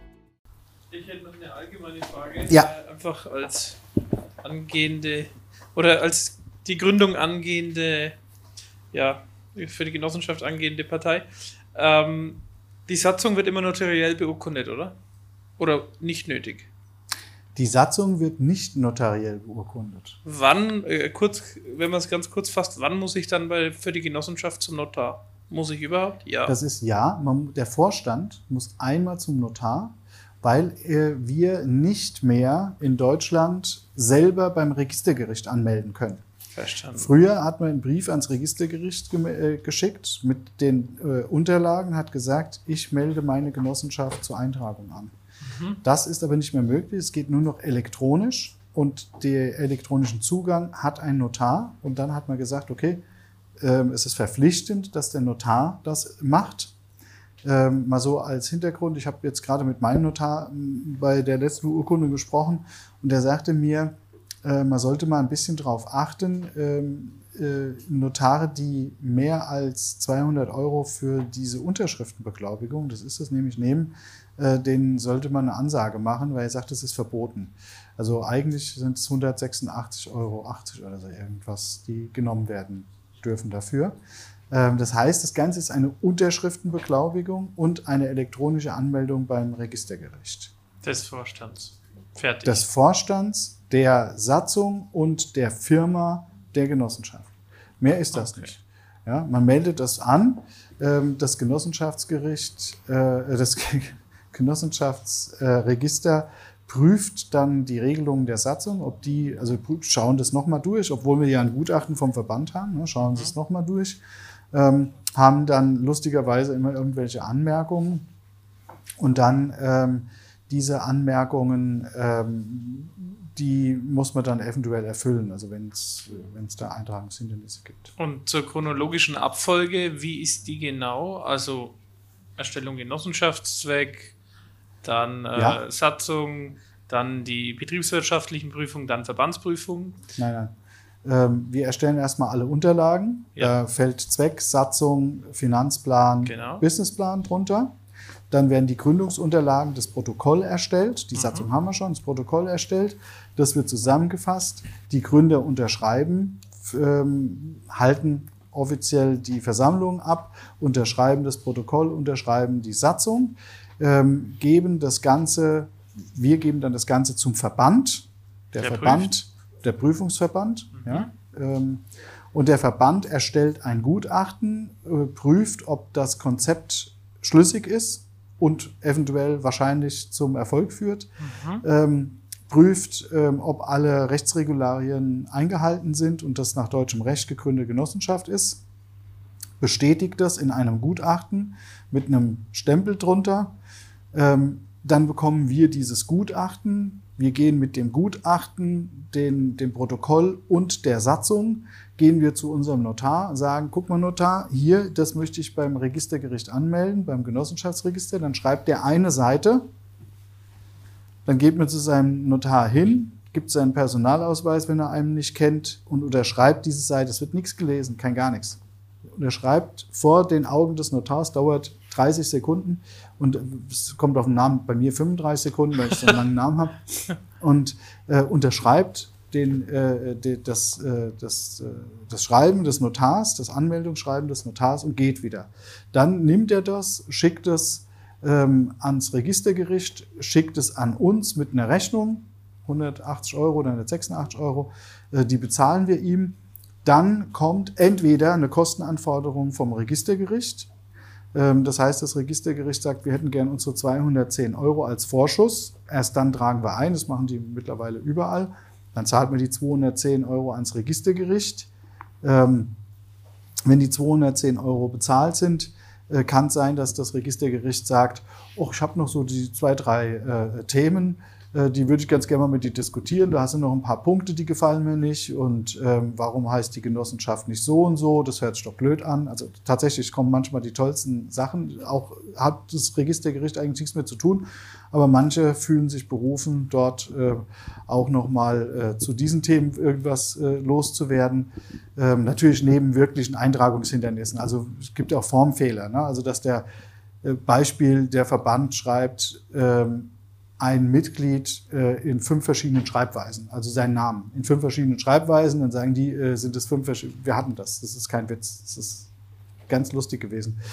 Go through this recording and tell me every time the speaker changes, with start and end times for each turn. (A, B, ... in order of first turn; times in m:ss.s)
0:00.9-0:03.8 A
0:04.4-0:08.2 A
0:08.9-0:14.9 A
0:15.6-0:16.7 A
0:17.5-0:20.2 B
0:20.2-0:26.5 A
0:26.4-0:36.2 B
0:36.5-0:37.1 A
0:36.9-0:45.1 B
0:45.5-0:45.8 A
0:45.8-0:53.0 B
0:53.6-0:56.7 B
0:57.4-1:24.0 B
1:24.5-1:30.5 B
1:30.8-1:32.6 A
1:32.4-1:54.0 B
1:38.1-1:38.5 A
1:53.0-1:53.3 A
1:54.5-1:58.1 B
1:59.0-2:07.9 B
2:08.0-2:11.8 A
2:12.4-2:14.1 A
2:14.8-2:20.0 A
2:15.3-2:15.6 B
2:20.2-2:20.5 B
2:21.0-2:27.7 B
2:26.2-2:26.6 A
2:28.3-3:01.1 B
2:31.1-2:31.5 A
2:48.6-2:49.1 A
2:50.8-2:51.1 A
3:01.2-3:01.6 A
3:01.6-3:08.6 B
3:09.6-3:13.5 B
3:14.1-3:29.6 B
3:31.2-3:38.6 B
3:39.2-4:10.7 B
4:11.3-4:21.7 B
4:22.2-4:22.7 B
4:23.6-4:56.6 B
4:57.2-5:09.1 B
5:09.7-5:10.6 B